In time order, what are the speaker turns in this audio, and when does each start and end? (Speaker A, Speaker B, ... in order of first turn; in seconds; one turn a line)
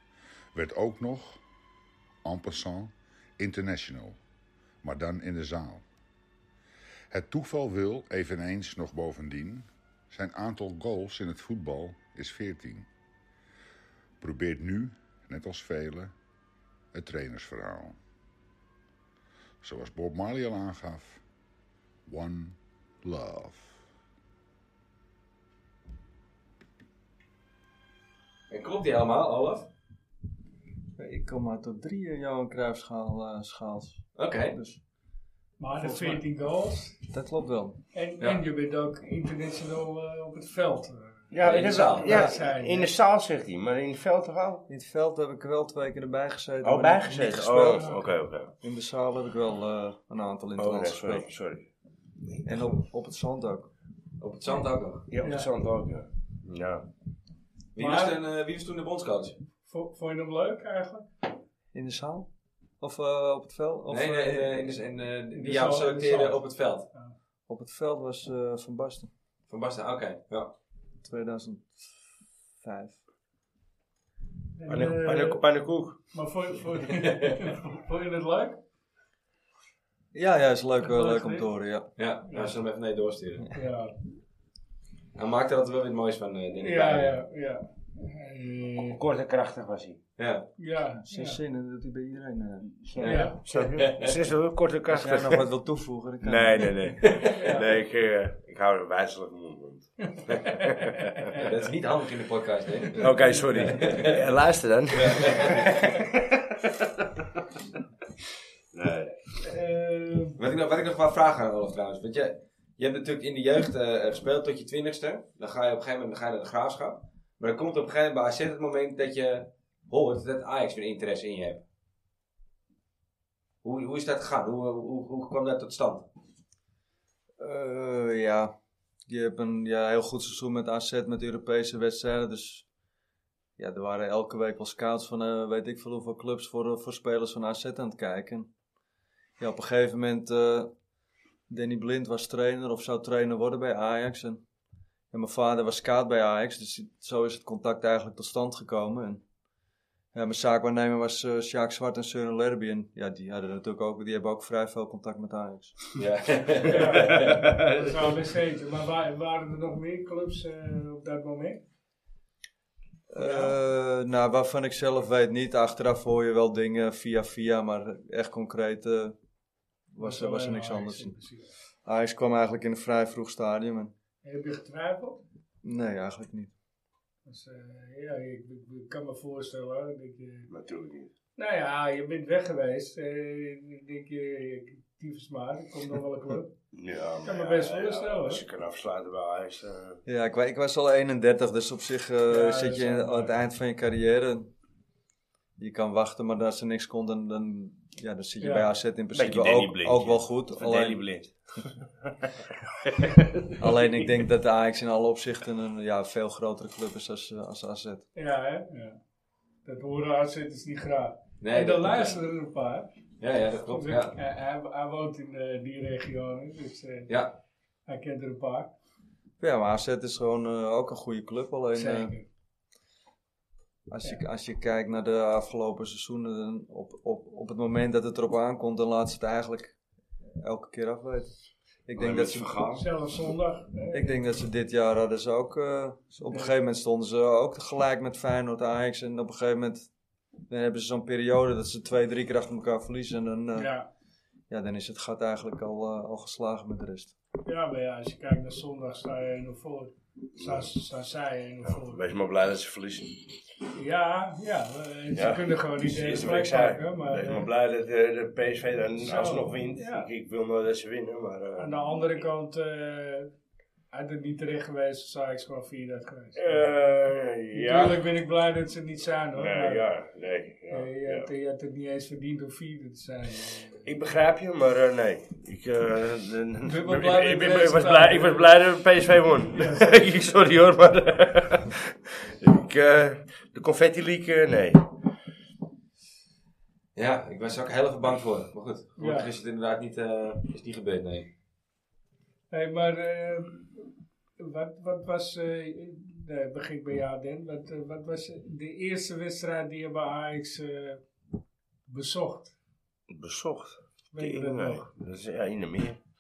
Speaker A: 0.5-1.4
Speaker A: 2.2-4.2
Speaker A: 4.8-5.8
Speaker A: 7.1-12.9
Speaker A: 14.2-16.1
Speaker A: 16.9-18.0
Speaker A: 19.6-21.2
Speaker A: 22.1-23.8
Speaker B: 28.5-29.7
Speaker C: 31.0-34.8
Speaker B: 34.2-34.6
Speaker D: 35.6-37.0
Speaker C: 35.8-36.2
Speaker C: 37.1-37.8
Speaker D: 37.9-42.9
Speaker E: 41.3-44.6
Speaker B: 41.4-42.3
Speaker C: 44.7-51.3
Speaker E: 46.6-48.5
Speaker D: 47.8-48.0
Speaker E: 50.6-51.7
Speaker E: 52.2-52.8
Speaker C: 52.5-53.7
Speaker B: 54.2-55.1
Speaker E: 55.1-56.9
Speaker D: 55.2-55.5
Speaker B: 57.8-59.4
Speaker D: 57.8-58.2
Speaker D: 59.6-61.1
Speaker C: 61.7-62.3
Speaker C: 62.8-64.6
Speaker B: 63.9-66.9
Speaker D: 65.3-67.1
Speaker C: 67.5-69.1
Speaker B: 69.5-70.5
Speaker C: 71.0-73.0
Speaker D: 74.6-75.5
Speaker E: 74.7-76.0
Speaker D: 76.1-78.6
Speaker C: 80.1-81.9
Speaker D: 80.8-81.5
Speaker B: 82.0-83.5
Speaker D: 82.2-82.6
Speaker D: 83.5-83.9
Speaker B: 85.2-87.2
Speaker D: 86.6-89.0
Speaker E: 88.8-90.0
Speaker B: 90.2-90.5
Speaker D: 90.6-91.4
Speaker C: 91.0-92.8
Speaker E: 92.8-95.5
Speaker B: 93.0-94.1
Speaker D: 93.0-93.4
Speaker C: 94.9-96.8
Speaker E: 96.2-101.3
Speaker B: 97.0-97.7
Speaker D: 97.3-97.7
Speaker D: 100.1-101.5
Speaker B: 101.4-104.2
Speaker E: 103.0-107.5
Speaker D: 103.2-103.5
Speaker B: 104.9-106.0
Speaker E: 108.7-109.4
Speaker D: 109.4-110.4
Speaker B: 110.4-121.7
Speaker B: 123.6-126.1
Speaker C: 127.4-128.5
Speaker C: 129.1-132.7
Speaker C: 133.6-138.5
Speaker C: 139.4-140.7
Speaker C: 141.5-144.4
Speaker C: 145.1-149.2
Speaker C: 150.1-155.9
Speaker B: 155.9-157.4
Speaker D: 156.7-161.6
Speaker E: 157.2-157.7
Speaker C: 163.1-169.2
Speaker D: 163.2-163.6
Speaker C: 169.9-171.2
Speaker D: 170.0-171.5
Speaker C: 171.8-173.9
Speaker D: 174.2-175.2
Speaker C: 175.6-176.5
Speaker D: 177.3-180.5
Speaker E: 180.5-181.1
Speaker D: 181.4-186.5
Speaker E: 186.7-190.0
Speaker D: 187.2-188.4
Speaker C: 190.1-194.5
Speaker D: 192.3-193.3
Speaker C: 195.6-201.1
Speaker D: 198.4-198.7
Speaker E: 199.1-203.7
Speaker C: 203.6-208.1
Speaker D: 208.2-209.0
Speaker D: 209.7-212.9
Speaker B: 211.4-212.2
Speaker B: 213.2-214.2
Speaker D: 213.7-217.1
Speaker B: 217.1-217.4
Speaker D: 217.9-218.7
Speaker C: 219.4-222.1
Speaker D: 221.7-222.2
Speaker C: 223.9-229.8
Speaker C: 230.4-232.8
Speaker E: 232.0-232.8
Speaker D: 232.8-234.3
Speaker C: 233.9-239.9
Speaker C: 240.5-243.7
Speaker D: 243.6-243.9
Speaker C: 244.5-247.2
Speaker D: 247.4-252.0
Speaker E: 250.3-250.7
Speaker E: 251.7-253.3
Speaker D: 253.7-257.5
Speaker E: 255.1-262.2
Speaker D: 259.0-260.1
Speaker D: 261.6-263.3
Speaker D: 263.9-266.7
Speaker E: 266.4-268.0
Speaker D: 267.5-269.9
Speaker E: 269.4-271.3
Speaker D: 270.7-273.9
Speaker E: 273.8-284.9
Speaker D: 276.6-278.5
Speaker D: 279.5-280.2
Speaker B: 286.9-291.3
Speaker D: 289.0-289.3
Speaker D: 292.5-293.9
Speaker D: 294.4-301.0
Speaker D: 301.9-302.6
Speaker E: 303.1-306.0
Speaker D: 304.1-304.9